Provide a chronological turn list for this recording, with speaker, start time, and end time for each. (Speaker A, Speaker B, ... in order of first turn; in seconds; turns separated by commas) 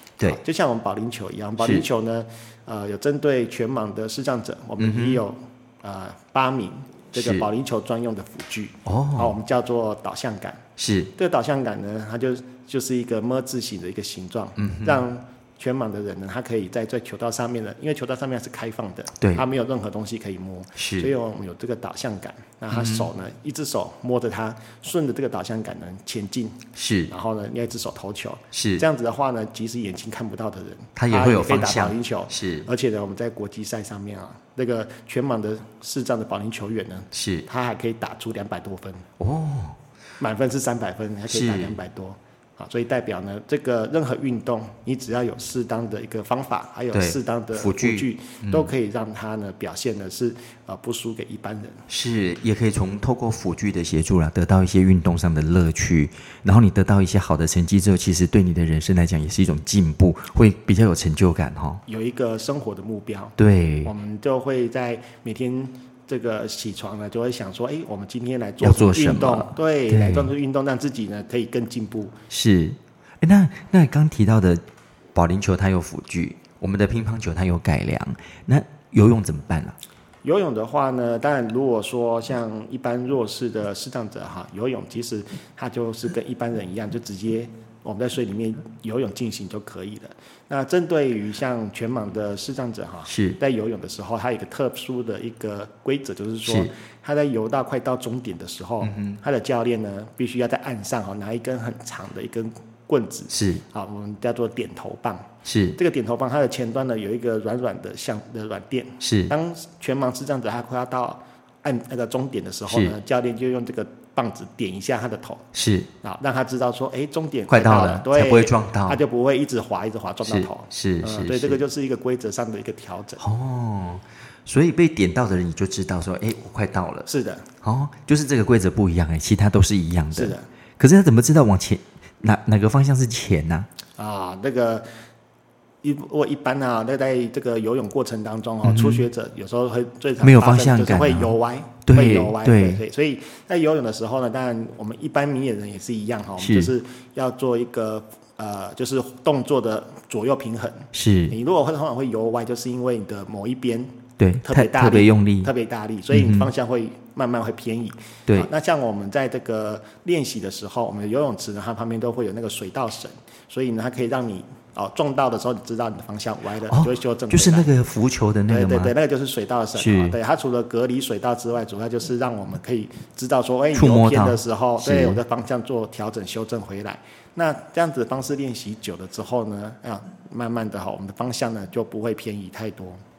Speaker A: 0.2-39.1, Speaker B: 1.6-1.9, Speaker B: 4.8-5.2, Speaker B: 7.2-7.5, Speaker B: 8.8-9.4, Speaker B: 10.8-11.1, Speaker B: 14.6-15.0, Speaker B: 19.2-19.4, Speaker B: 20.8-21.1, Speaker B: 22.7-23.1, Speaker B: 26.8-27.1, Speaker B: 28.5-28.8, Speaker B: 31.0-32.7, Speaker B: 37.1-37.5, Speaker B: 39.2-39.8, Speaker A: 40.2-51.9, Speaker B: 41.3-41.8, Speaker B: 46.9-48.7, Speaker B: 51.9-61.8, Speaker A: 61.9-72.2, Speaker B: 63.4-63.9, Speaker B: 68.6-70.3, Speaker B: 72.3-74.6, Speaker B: 75.2-79.8, Speaker A: 80.2-123.2, Speaker B: 93.1-93.4, Speaker B: 96.5-96.7, Speaker B: 98.8-99.2, Speaker B: 103.3-103.6, Speaker B: 105.5-105.8, Speaker B: 109.0-109.3, Speaker B: 112.7-112.9, Speaker B: 115.5-115.9, Speaker B: 117.5-119.0, Speaker B: 120.2-121.6, Speaker B: 123.2-127.1, Speaker A: 127.1-127.5, Speaker B: 127.6-133.7, Speaker A: 130.1-130.5, Speaker A: 134.0-134.9, Speaker A: 135.8-167.7, Speaker B: 138.6-139.1, Speaker B: 140.2-141.3, Speaker B: 141.8-142.8, Speaker B: 146.4-146.7, Speaker B: 150.9-151.3, Speaker B: 154.2-155.5, Speaker B: 156.1-156.5, Speaker B: 166.7-168.9, Speaker A: 168.5-183.0, Speaker B: 169.8-170.2, Speaker B: 173.7-175.2